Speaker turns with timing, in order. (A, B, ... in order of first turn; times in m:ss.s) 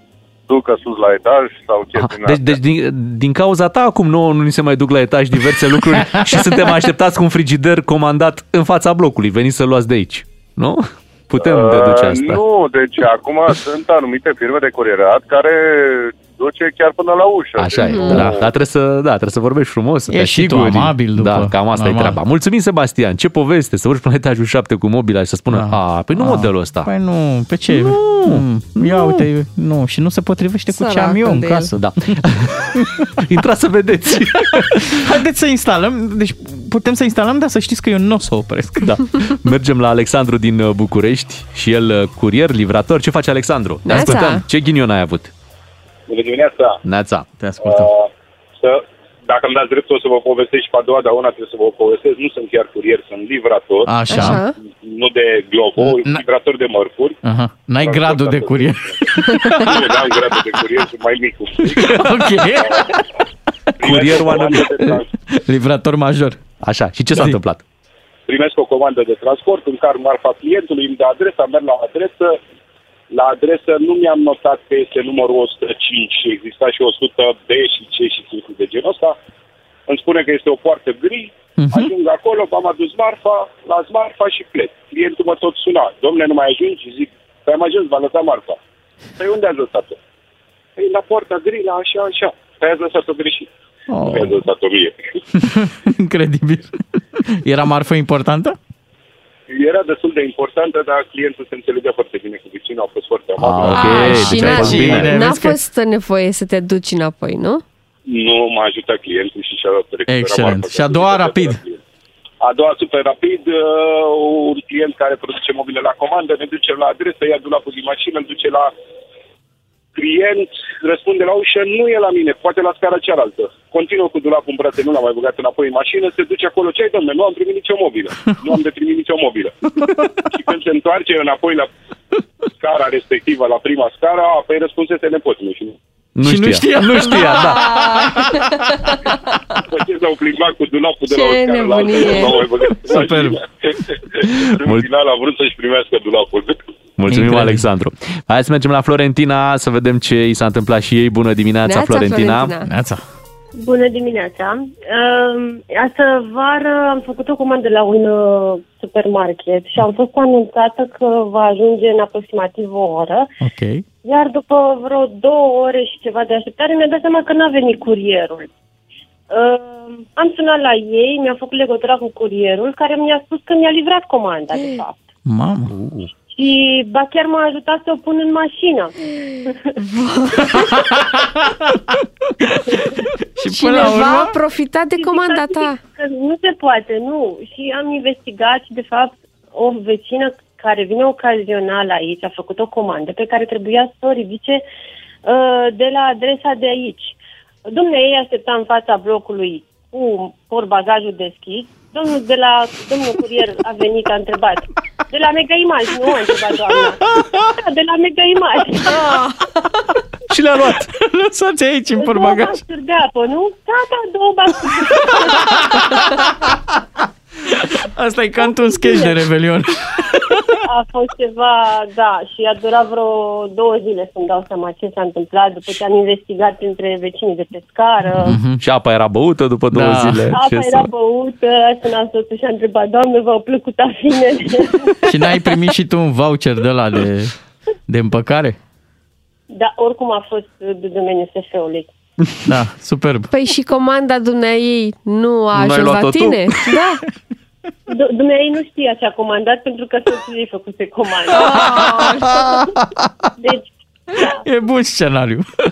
0:00.5-0:02.6 A
0:01.9-0:12.4 B
0:06.1-0:06.4 C
0:11.4-0:18.4 A
0:17.6-0:26.9 B
0:17.9-0:18.2 D
0:20.1-0:22.2 C
0:25.5-0:32.2 C
0:27.7-0:29.2 B
0:30.7-0:31.7 D
0:31.8-0:32.5 B
0:32.7-0:33.2 C
0:33.2-0:35.0 B
0:34.5-0:39.0 C
0:38.8-0:45.3 B
0:43.8-0:44.4 D
0:46.1-0:46.8 E
0:46.8-0:47.2 B
0:47.4-0:47.9 C
0:47.6-0:53.9 E
0:53.8-0:54.4 C
0:54.1-0:54.5 D
0:54.7-0:57.2 E
0:55.8-0:56.2 C
0:57.2-0:59.8 C
0:57.8-1:02.8 E
0:59.3-0:59.6 D
1:01.7-1:03.0 C
1:03.8-1:05.0 E
1:03.8-1:04.7 B
1:04.8-1:06.4 C
1:06.6-1:07.6 B
1:08.3-1:12.4 E
1:13.1-1:19.2 E
1:19.9-1:28.6 E
1:21.6-1:21.9 C
1:29.2-1:30.0 E
1:30.8-1:33.5 E
1:33.9-1:34.4 C
1:34.0-1:35.0 E
1:35.3-1:38.6 C
1:39.5-1:44.0 E
1:43.4-1:45.1 B
1:43.7-1:45.6 C
1:43.7-1:47.6 D
1:44.6-1:44.9 E
1:48.1-1:51.8 E
1:50.1-1:51.6 C
1:52.4-1:58.7 E
1:59.9-2:09.5 E
2:10.3-2:11.7 E
2:12.6-2:15.8 E
2:16.2-2:17.6 B
2:16.2-2:18.9 C
2:17.5-2:19.2 D
2:19.7-2:26.6 E
2:21.1-2:22.4 D
2:22.9-2:23.3 C
2:24.5-2:24.8 B
2:27.0-2:32.5 B
2:27.1-2:27.7 C
2:31.6-2:32.7 D
2:32.7-2:33.0 C
2:33.5-2:43.3 F
2:43.4-2:43.8 C
2:44.0-2:48.5 F
2:49.3-2:55.1 F
2:55.2-2:55.7 C
2:56.2-2:58.9 F
2:59.8-3:00.7 D
3:00.5-3:01.7 C
3:02.4-3:04.3 C
3:03.5-3:05.8 D
3:05.0-3:14.6 F
3:15.2-3:27.0 F
3:27.1-3:27.4 C
3:27.6-3:29.2 F
3:30.3-3:30.9 B
3:30.9-3:32.6 C
3:32.0-3:36.0 F
3:35.1-3:36.3 C
3:37.5-3:40.6 C
3:38.4-3:39.2 F
3:40.6-3:48.4 F
3:48.2-3:48.6 C
3:48.6-3:50.9 B
3:49.7-3:50.3 C
3:50.3-3:54.9 F
3:55.0-3:57.3 C
3:57.9-3:58.6 C
3:59.5-4:01.9 F
4:02.4-4:03.3 C
4:03.3-4:07.0 D
4:05.5-4:06.6 B
4:07.9-4:12.7 F
4:11.3-4:12.3 D
4:11.6-4:12.3 C
4:13.4-4:14.4 F
4:14.3-4:15.5 C